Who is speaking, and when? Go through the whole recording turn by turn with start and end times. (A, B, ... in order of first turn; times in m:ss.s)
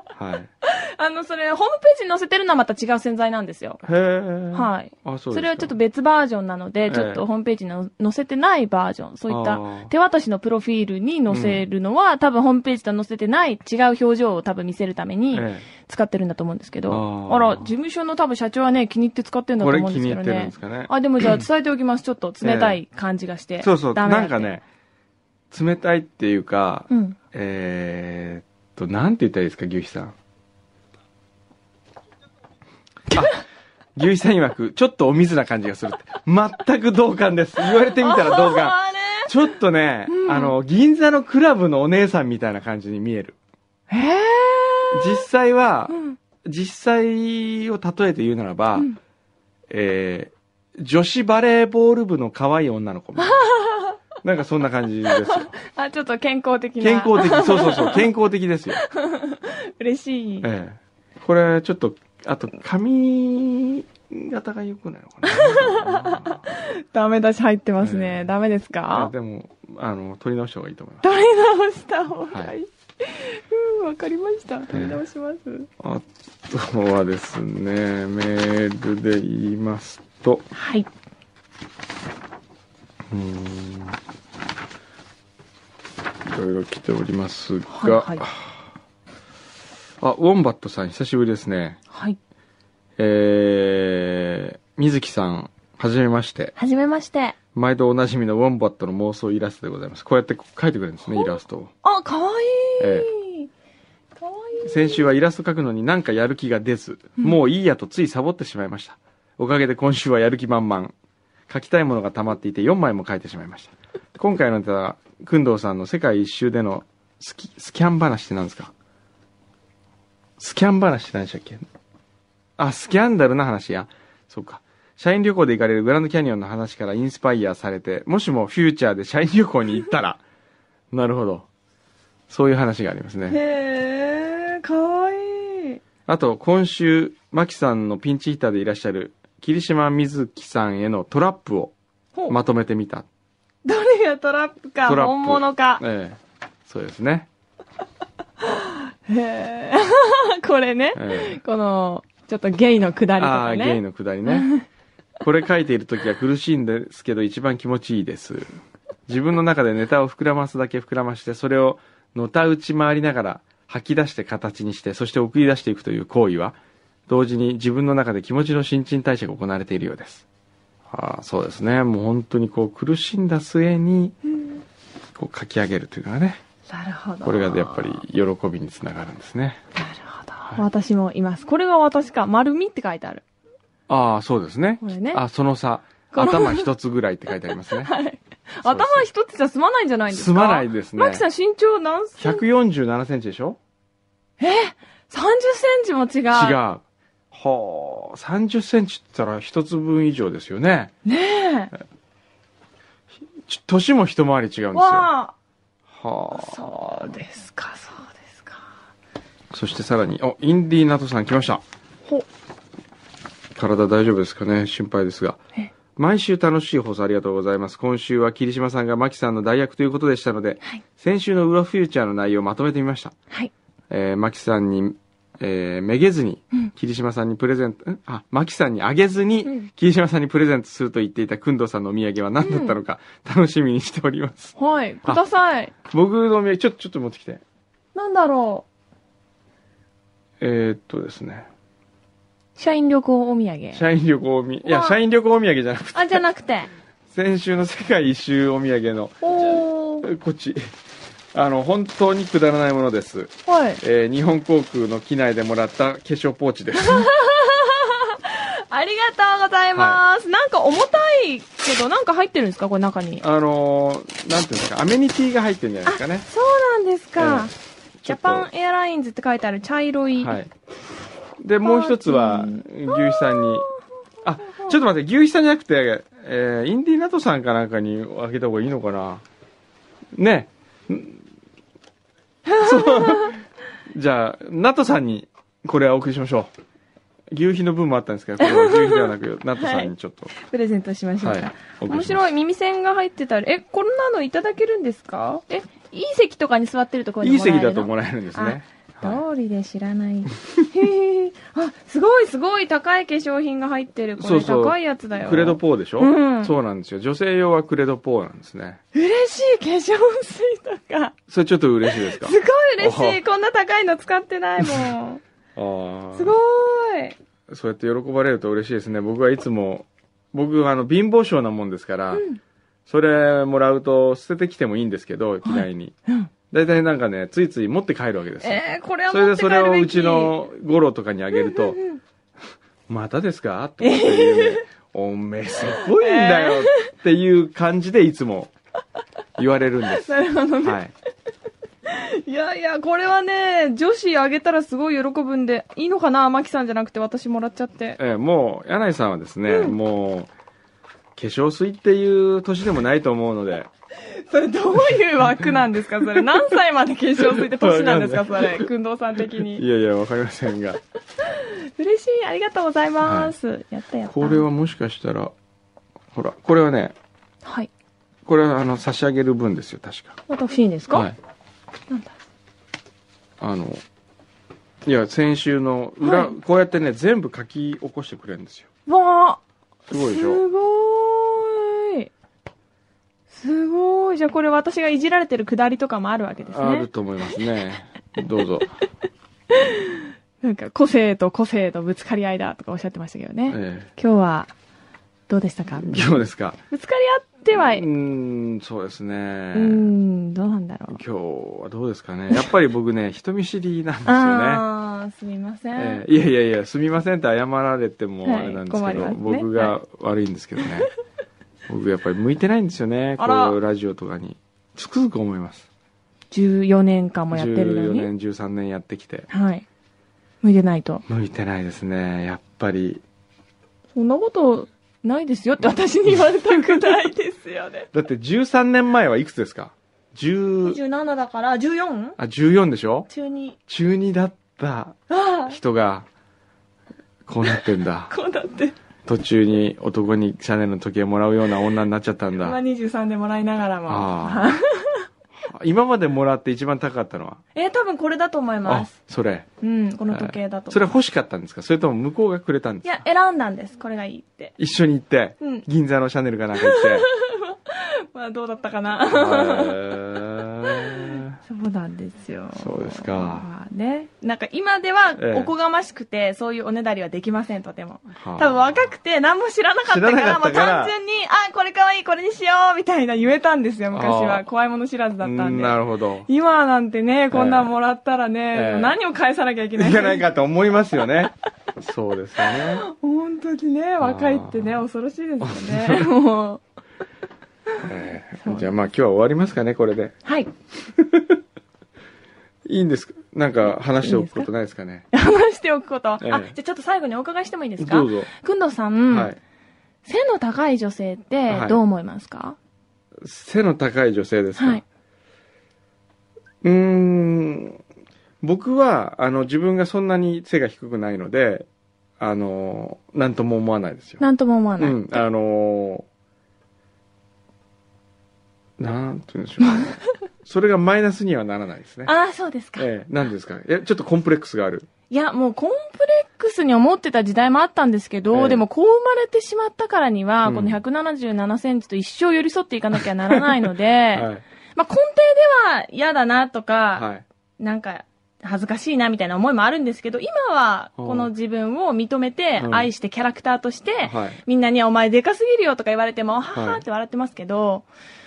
0:00.1-0:00.5 A
0:00.6-0:03.8 B
0:03.8-0:05.7 A
0:04.5-0:24.5 B
0:06.9-0:07.2 A
0:09.3-0:09.9 A
0:11.3-0:11.6 A
0:15.3-0:15.6 A
0:16.9-0:17.7 A
0:19.6-0:21.4 A
0:22.4-0:22.8 A
0:23.6-0:24.6 A
0:25.5-0:30.1 A
0:26.9-0:27.2 B
0:33.1-0:33.4 A
0:34.0-0:43.4 A
0:37.8-0:39.3 B
0:40.1-0:40.5 B
0:43.9-0:45.2 B
0:44.9-0:48.9 A
0:45.9-0:46.2 B
0:49.7-0:53.4 A
0:53.2-0:54.0 B
0:54.2-0:55.5 A
0:55.1-0:58.1 B
0:56.8-0:58.8 A
0:58.8-1:00.5 B
1:00.4-1:06.4 A
1:05.2-1:09.1 B
1:07.8-1:08.3 A
1:08.9-1:11.0 A
1:11.0-1:15.7 B
1:14.7-1:15.0 A
1:15.8-1:20.5 A
1:20.5-1:20.9 B
1:23.1-1:24.0 A
1:26.2-1:28.6 A
1:27.7-1:28.2 B
1:30.0-1:31.8 A
1:31.9-1:32.2 B
1:33.0-1:36.5 A
1:36.6-1:37.4 B
1:37.5-1:41.7 A
1:41.1-1:43.5 B
1:42.8-1:43.1 A
1:44.2-1:45.0 B
1:44.6-1:50.9 A
1:51.5-1:58.7 A
2:00.4-2:01.6 A
2:02.6-2:10.2 A
2:10.9-2:11.5 A
2:12.3-2:13.4 A
2:13.3-2:15.8 B
2:16.0-2:21.7 A
2:22.3-2:23.1 A
2:23.6-2:25.8 B
2:24.8-2:27.3 A
2:28.4-2:34.6 B
2:30.9-2:31.4 A
2:33.2-2:34.5 A
2:35.2-2:38.5 A
2:39.1-2:46.6 A
2:47.1-2:50.2 A
2:50.9-2:54.2 A
2:55.2-2:56.4 A
2:56.7-2:58.0 B
2:57.2-2:59.6 A
2:59.8-3:03.2 B
3:03.9-3:07.9 A
3:04.8-3:05.2 B
3:06.1-3:06.7 B
3:07.8-3:12.4 B
3:08.6-3:09.1 A
3:10.1-3:11.2 A
3:12.2-3:13.6 A
3:14.4-3:16.6 B
3:16.3-3:20.9 A
3:21.0-3:21.7 B
3:23.4-3:25.1 A
3:24.7-3:25.3 B
3:25.9-3:26.6 A
3:26.3-3:28.6 B
3:29.5-3:31.6 A
3:33.6-3:35.4 A
3:36.0-3:43.1 A
3:43.9-3:54.5 A
3:52.4-3:52.8 B
3:54.6-3:55.7 B
3:55.8-3:57.4 A
3:57.9-3:58.6 B
4:00.4-4:01.5 A
4:02.6-4:03.8 B
4:03.7-4:06.2 A
4:04.6-4:05.0 B
4:05.9-4:06.7 B
4:07.1-4:10.7 A
4:09.2-4:10.1 B
4:11.3-4:17.1 A
4:13.5-4:13.8 B
4:16.8-4:23.2 B
4:19.7-4:20.0 A
4:23.2-4:26.3 A
4:25.8-4:27.5 B
4:27.2-4:27.5 A
4:28.0-4:28.5 A
4:28.0-4:30.4 B
4:30.2-4:30.5 A
4:31.4-4:33.7 A
4:31.6-4:33.7 B
4:34.2-4:39.2 A
4:34.4-4:34.8 B
4:40.1-4:41.2 A
4:42.5-4:43.3 B
4:42.6-4:46.5 A
4:47.3-4:50.3 A
4:48.4-5:06.5 B
4:51.2-4:52.2 A
4:57.2-4:59.2 A
5:04.2-5:08.8 A
5:08.9-5:11.2 B
5:11.3-5:13.2 A
5:11.8-5:15.2 B
5:14.6-5:14.9 A
5:15.6-5:16.4 A
5:16.1-5:17.2 B
5:17.5-5:22.2 A
5:22.1-5:22.4 B
5:22.9-5:25.9 A
5:25.4-5:26.3 B
5:26.5-5:31.8 A
5:28.4-5:30.4 B
5:31.5-5:32.0 B
5:32.9-5:38.5 A
5:33.8-5:34.6 B
5:35.6-5:36.9 B
5:39.4-5:40.9 A
5:40.0-5:40.8 B
5:41.9-5:48.0 B
5:48.0-5:50.3 A
5:49.5-5:49.8 B
5:51.2-5:53.7 A
5:54.1-5:59.6 B
5:57.2-5:58.7 A
5:59.4-6:00.8 A
6:01.2-6:04.4 B
6:03.0-6:03.3 A
6:04.1-6:05.3 A
6:06.1-6:06.9 A
6:07.4-6:07.7 B
6:08.2-6:10.2 A
6:10.3-6:11.1 B
6:10.9-6:11.2 A
6:13.4-6:13.8 A
6:14.8-6:18.7 A
6:16.0-6:16.3 B
6:18.9-6:22.1 B
6:19.9-6:20.4 A
6:23.3-6:26.9 B
6:26.5-6:28.7 A
6:29.5-6:34.5 B
6:33.5-6:33.9 A
6:35.3-6:37.9 B
6:35.8-6:36.6 A
6:37.5-6:39.9 A
6:39.5-6:41.0 B
6:40.9-6:44.6 A
6:44.0-6:46.0 B
6:45.8-6:50.9 A
6:48.2-6:49.7 B
6:51.7-6:55.6 A
6:53.2-6:53.6 B
6:56.3-6:58.1 B
6:57.3-6:59.3 A
6:59.3-6:59.6 B
7:00.4-7:01.0 B
7:01.1-7:03.0 A
7:03.9-7:07.9 B
7:07.9-7:10.8 A
7:10.6-7:12.2 B
7:12.2-7:13.1 A
7:13.1-7:13.6 B
7:13.7-7:16.1 A
7:15.1-7:15.6 B
7:17.2-7:18.1 A
7:17.4-7:18.8 B
7:19.0-7:22.6 A
7:22.4-7:25.1 B
7:23.9-7:24.5 A
7:25.3-7:27.4 A
7:27.5-7:28.9 B
7:28.6-7:29.4 A
7:29.6-7:30.9 B
7:30.1-7:33.0 A
7:32.8-7:34.5 B
7:34.6-7:37.1 A
7:36.5-7:40.0 B
7:39.1-7:41.4 A
7:40.6-8:00.2 B
7:42.5-7:43.5 A
7:45.2-7:45.5 A
7:48.2-7:48.8 A
7:49.9-7:50.9 A
7:53.9-7:54.4 A
7:55.2-7:56.3 A
7:57.3-7:57.7 A
7:58.5-7:58.9 A
7:59.8-8:02.8 A
8:02.5-8:06.6 B
8:04.0-8:04.8 A
8:05.4-8:06.1 A
8:07.8-8:10.2 A
8:08.4-8:08.7 B
8:10.2-8:10.5 B
8:10.8-8:11.4 A
8:12.6-8:15.0 A
8:14.0-8:14.5 B
8:15.1-8:19.4 B
8:16.2-8:16.5 A
8:17.8-8:18.3 A
8:19.1-8:19.4 A
8:20.0-8:22.6 B
8:21.5-8:21.8 A
8:23.2-8:24.8 A
8:24.6-8:24.8 B
8:26.6-8:27.8 A
8:28.4-8:31.7 A
8:32.2-8:34.2 A
8:34.2-8:35.0 B
8:34.8-8:36.0 A
8:38.8-8:42.1 A
8:39.6-8:39.9 B
8:42.0-8:42.9 B
8:42.8-8:44.9 A
8:45.1-8:57.1 B
8:48.3-8:48.6 A
8:50.4-8:50.8 A
8:53.3-8:53.6 A
8:54.1-8:54.4 A
8:57.0-8:57.2 A
8:57.6-9:07.8 B
9:01.0-9:01.3 A
9:02.6-9:02.9 A
9:04.0-9:04.4 A
9:06.5-9:06.8 A